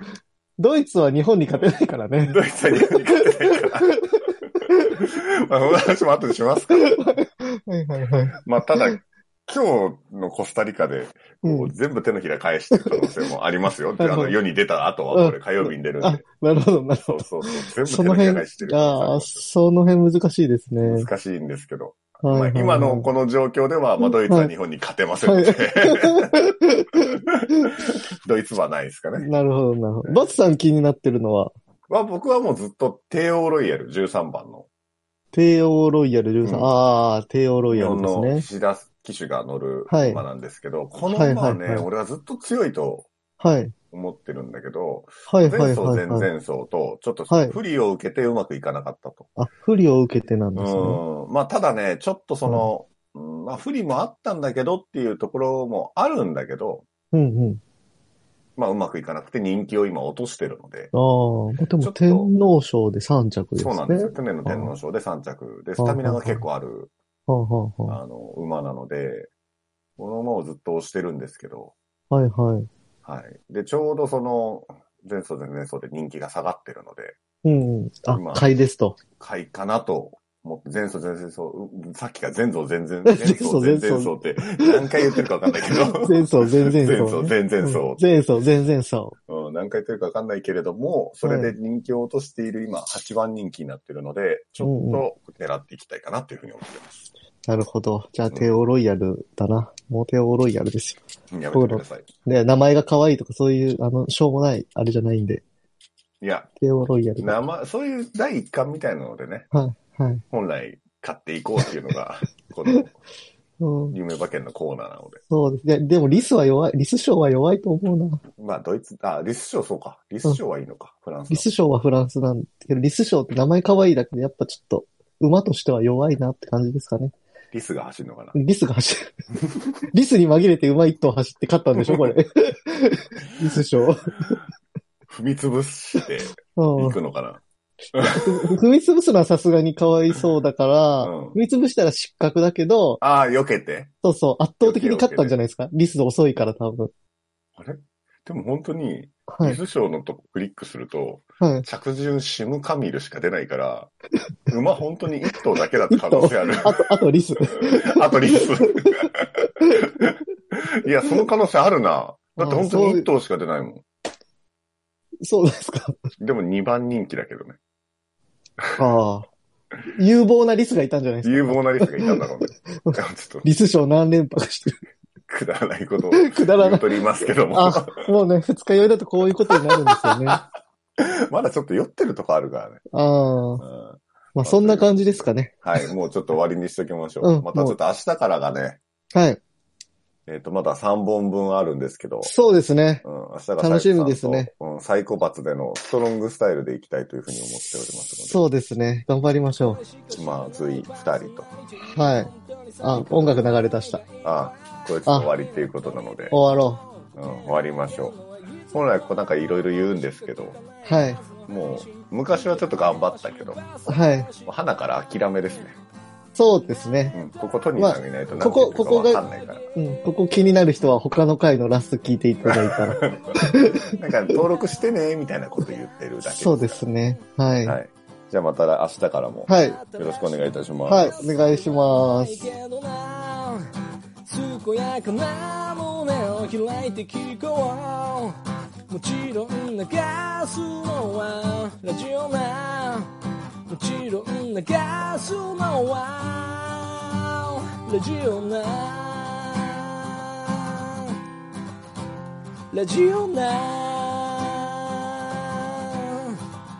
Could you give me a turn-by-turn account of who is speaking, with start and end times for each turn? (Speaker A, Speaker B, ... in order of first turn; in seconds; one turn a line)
Speaker A: 0.6-2.4
Speaker B: 1.5-3.9
Speaker A: 3.1-4.9
Speaker B: 4.9-6.9
Speaker A: 6.8-9.0
Speaker B: 8.4-16.2
Speaker A: 11.4-11.7
Speaker A: 12.7-13.1
Speaker A: 14.0-14.4
Speaker A: 15.1-21.1
Speaker B: 17.1-19.4
Speaker B: 20.8-26.3
Speaker A: 22.2-23.1
Speaker A: 24.0-24.5
Speaker A: 25.2-27.2
Speaker B: 27.3-29.3
Speaker A: 29.2-31.5
Speaker B: 31.9-34.7
Speaker A: 35.3-38.5
Speaker B: 36.4-36.7
Speaker B: 37.7-43.1
Speaker A: 39.9-40.2
Speaker A: 41.1-41.9
Speaker A: 43.4-43.7
Speaker B: 43.9-49.3
Speaker A: 45.3-46.3
Speaker A: 47.3-47.6
Speaker A: 49.4-51.0
Speaker B: 50.5-56.8
Speaker A: 52.4-52.7
Speaker A: 57.1-57.6
Speaker B: 58.5-60.9
Speaker A: 60.9-64.7
Speaker B: 61.8-62.3
Speaker B: 63.6-66.9
Speaker A: 65.8-66.4
Speaker A: 67.3-68.0
Speaker B: 67.9-69.3
Speaker B: 70.0-71.7
Speaker A: 72.1-72.7
Speaker B: 73.0-77.1
Speaker A: 77.4-79.0
Speaker B: 78.1-78.5
Speaker B: 79.2-88.0
Speaker A: 83.0-84.8
Speaker A: 85.9-89.2
Speaker B: 89.3-97.0
Speaker A: 91.2-91.5
Speaker A: 94.6-95.0
Speaker A: 97.5-101.0
Speaker B: 101.3-102.1
Speaker A: 101.5-105.4
Speaker B: 106.2-106.5
Speaker A: 106.6-107.4
Speaker B: 107.2-109.5
Speaker A: 109.5-110.2
Speaker B: 110.3-112.9
Speaker A: 113.6-114.0
Speaker B: 113.9-115.2
Speaker A: 115.3-118.2
Speaker B: 118.4-121.5
Speaker A: 121.3-127.1
Speaker B: 127.5-128.3
Speaker A: 128.3-129.1
Speaker A: 129.9-134.4
Speaker B: 131.8-132.1
Speaker B: 135.1-137.4
Speaker A: 136.5-137.0
Speaker B: 137.9-138.4
Speaker A: 138.0-143.0
Speaker B: 141.0-141.4
Speaker B: 143.0-143.9
Speaker A: 144.0-146.9
Speaker B: 144.6-145.3
Speaker B: 147.6-153.9
Speaker A: 149.3-149.6
Speaker A: 151.4-151.7
Speaker B: 154.5-156.8
Speaker A: 155.9-158.9
Speaker B: 157.4-159.2
Speaker B: 160.0-163.8
Speaker A: 162.4-163.1
Speaker A: 165.2-166.0
Speaker B: 166.2-167.6
Speaker A: 168.8-169.3
Speaker A: 169.9-172.2
Speaker B: 171.2-173.5
Speaker A: 172.8-174.8
Speaker B: 175.3-178.1
Speaker A: 176.1-176.9
Speaker A: 177.5-180.4
Speaker B: 179.5-182.8
Speaker A: 182.9-183.6
Speaker B: 183.6-188.8
Speaker A: 184.3-185.9
Speaker A: 187.2-187.8
Speaker A: 189.1-189.4
Speaker B: 190.2-192.3
Speaker A: 192.2-193.0
Speaker B: 193.0-198.4
Speaker A: 193.6-194.5
Speaker A: 198.3-199.8
Speaker B: 200.1-201.5
Speaker A: 201.8-204.0
Speaker B: 202.9-203.4
Speaker B: 204.2-206.3
Speaker A: 206.3-206.8
Speaker B: 207.2-210.6
Speaker A: 210.8-211.2
Speaker B: 211.4-213.7
Speaker A: 213.8-214.3
Speaker B: 214.4-215.8
Speaker A: 216.3-217.2
Speaker B: 217.1-219.6
Speaker A: 217.8-219.2
Speaker A: 219.7-223.9
Speaker B: 222.5-223.4
Speaker B: 224.0-226.8
Speaker A: 226.2-227.8
Speaker B: 227.6-231.2
Speaker A: 229.5-229.8
Speaker A: 230.8-232.5
Speaker C: 232.5-233.7
Speaker C: 234.2-238.4
Speaker C: 238.9-243.1
Speaker C: 243.7-251.1
Speaker C: 252.7-256.3